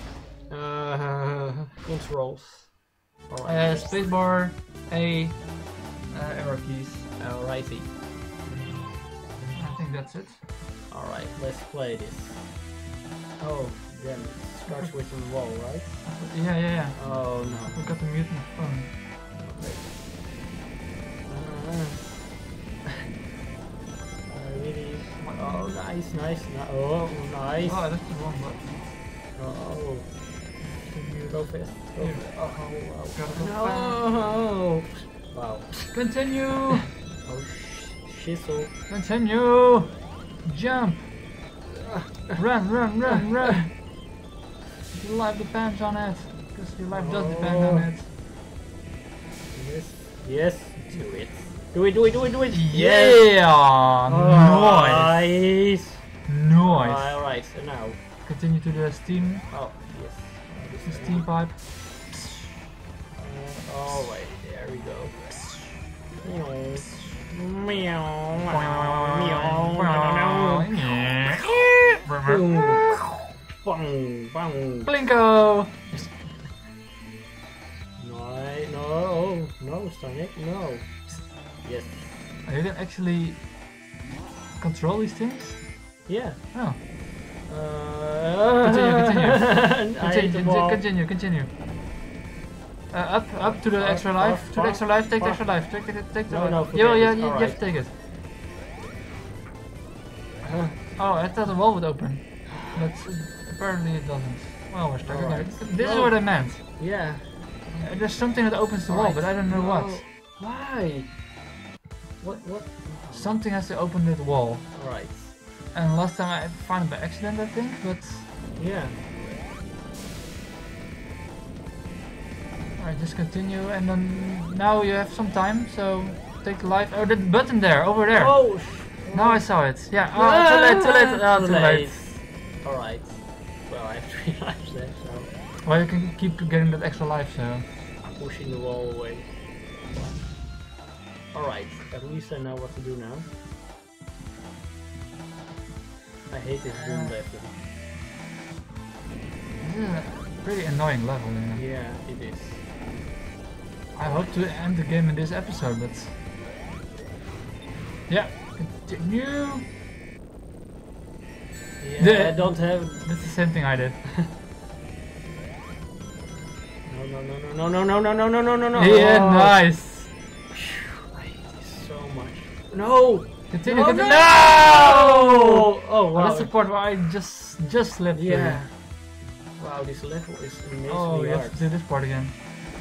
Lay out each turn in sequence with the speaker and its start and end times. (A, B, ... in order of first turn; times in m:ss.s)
0:00.5-0:04.0 A
0:03.4-0:07.1 B
0:07.2-0:07.9 A
0:08.5-0:08.8 B
0:09.5-0:10.4 B
0:10.9-0:12.6 A
0:13.4-0:16.3 A
0:14.6-0:19.0 B
0:16.9-0:17.9 A
0:19.4-0:19.9 A
0:21.2-0:22.3 A
0:24.3-0:27.9 A
0:25.2-0:25.7 B
0:27.6-0:28.9 B
0:29.4-0:30.1 A
0:30.8-0:34.0 B
0:31.3-0:35.9 A
0:35.8-0:36.9 B
0:37.2-0:38.7 A
0:38.9-0:41.1 B
0:41.8-0:43.2 A
0:42.4-0:43.8 B
0:44.9-0:48.1 B
0:46.9-0:47.9 A
0:49.5-0:53.5 A
0:52.5-0:55.2 B
0:54.0-0:58.0 A
0:56.3-0:57.4 B
0:58.2-0:59.5 B
0:59.5-1:01.4 A
1:00.8-1:01.6 B
1:03.1-1:05.4 A
1:06.2-1:14.9 A
1:08.4-1:12.5 B
1:14.8-1:15.8 B
1:18.0-1:22.3 A
1:22.4-1:23.4 B
1:24.6-1:25.7 B
1:26.0-1:26.8 A
1:26.5-1:26.8 B
1:27.4-1:30.8 A
1:28.6-1:31.5 B
1:32.9-1:37.9 B
1:33.4-1:37.6 A
1:40.4-1:40.8 A
1:41.0-1:47.1 B
1:45.0-1:51.1 A
1:47.8-1:50.0 B
1:52.2-1:53.4 A
1:53.1-1:54.8 B
1:54.7-1:55.3 A
1:55.7-1:58.3 B
1:58.6-1:59.0 A
2:02.8-2:12.0 B
2:08.1-2:15.3 A
2:15.6-2:17.6 B
2:18.1-2:20.4 A
2:21.3-2:23.3 A
2:26.3-2:27.5 A
2:26.7-2:27.2 B
2:29.6-2:31.6 B
2:31.5-2:32.6 A
2:33.9-2:36.1 B
2:34.0-2:34.6 A
2:38.1-2:39.7 B
2:41.8-2:43.4 A
2:42.0-2:44.1 B
2:46.8-2:49.6 A
2:48.7-2:50.1 B
2:50.5-2:56.5 A
2:53.5-2:58.6 B
2:58.1-3:01.7 A
3:00.9-3:02.4 B